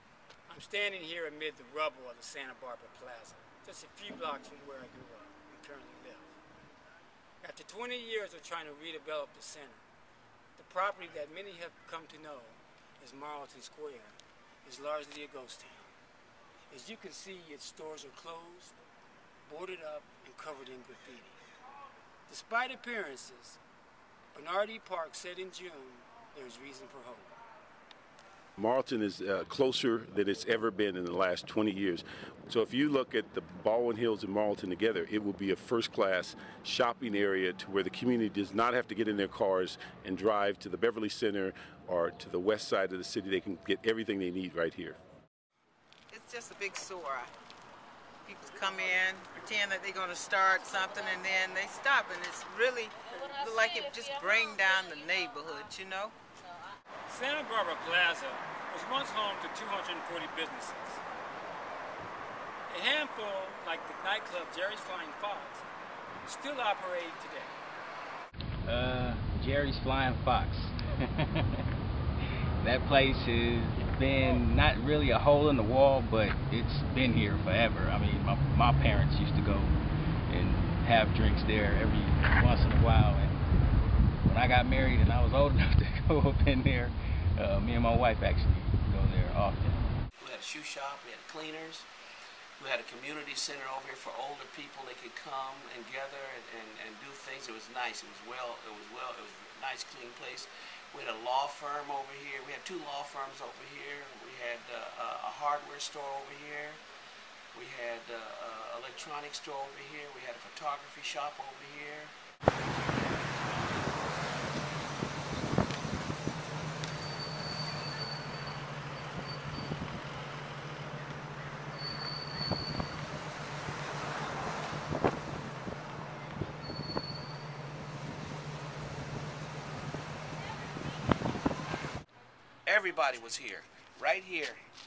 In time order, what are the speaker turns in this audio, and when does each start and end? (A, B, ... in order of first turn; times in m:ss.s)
0:00.5-0:06.3 A
0:07.4-0:09.8 A
0:10.6-0:15.9 A
0:16.7-0:18.8 A
0:19.4-0:21.4 A
0:22.3-0:23.6 A
0:24.3-0:27.3 A
0:28.6-0:45.0 B
0:46.1-0:47.3 C
0:48.2-0:56.1 C
0:57.1-1:01.0 A
1:02.7-1:05.6 A
1:06.2-1:07.6 A
1:08.6-1:11.6 D
1:12.6-1:19.8 D
1:20.3-1:23.4 D
1:24.2-1:29.8 D
1:30.2-1:31.9 E
1:32.6-1:46.8 E
1:47.5-1:52.1 E
2:12.6-2:14.6 E